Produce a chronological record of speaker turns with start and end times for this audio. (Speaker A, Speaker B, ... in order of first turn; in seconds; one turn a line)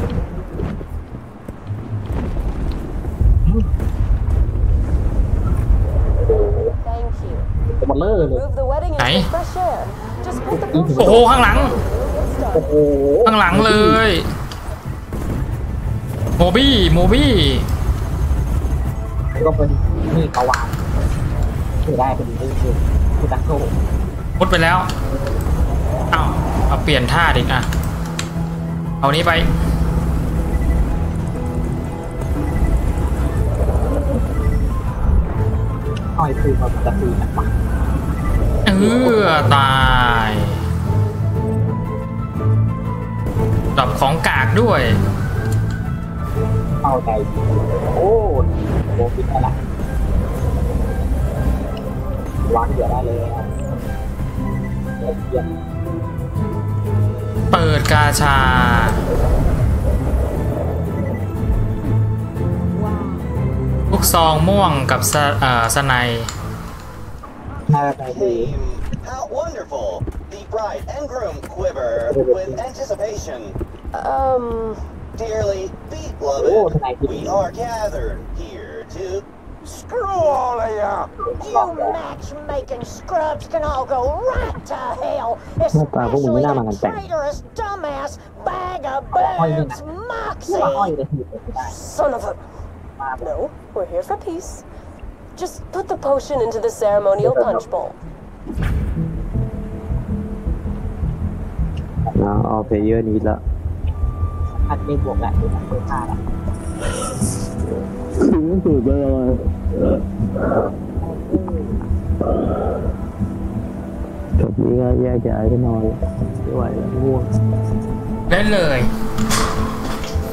Speaker A: 6.2-6.7
Speaker B: 6.8-7.5
Speaker A: 7.7-8.4
Speaker B: 8.3-12.7
Speaker C: 9.0-9.3
Speaker A: 10.4-11.8
Speaker C: 11.0-11.8
Speaker A: 12.5-14.0
Speaker C: 13.2-14.2
Speaker C: 16.4-17.6
Speaker A: 19.4-20.8
Speaker A: 21.8-23.7
Speaker C: 24.4-24.9
Speaker C: 26.1-27.7
Speaker C: 29.0-29.5
Speaker A: 36.1-37.5
Speaker C: 38.6-40.6
Speaker A: 38.8-39.5
Speaker C: 43.8-45.0
Speaker A: 46.8-49.6
Speaker A: 52.5-53.5
Speaker A: 55.0-55.5
Speaker C: 57.5-59.0
Speaker C: 63.9-66.3
Speaker A: 67.7-68.5
Speaker D: 68.0-73.5
Speaker A: 72.0-72.6
Speaker B: 73.9-74.8
Speaker D: 75.2-79.2
Speaker A: 76.3-77.5
Speaker D: 80.2-81.0
Speaker A: 81.2-82.0
Speaker E: 81.4-90.9
Speaker F: 85.7-87.0
Speaker A: 89.1-89.8
Speaker A: 90.5-91.8
Speaker B: 91.7-92.4
Speaker A: 93.0-93.3
Speaker B: 93.2-94.6
Speaker B: 95.3-98.0
Speaker A: 97.2-97.6
Speaker A: 102.0-102.8
Speaker F: 102.1-103.4
Speaker A: 104.6-106.2
Speaker F: 107.6-110.0
Speaker A: 111.0-111.8
Speaker F: 114.4-117.3
Speaker C: 118.3-118.9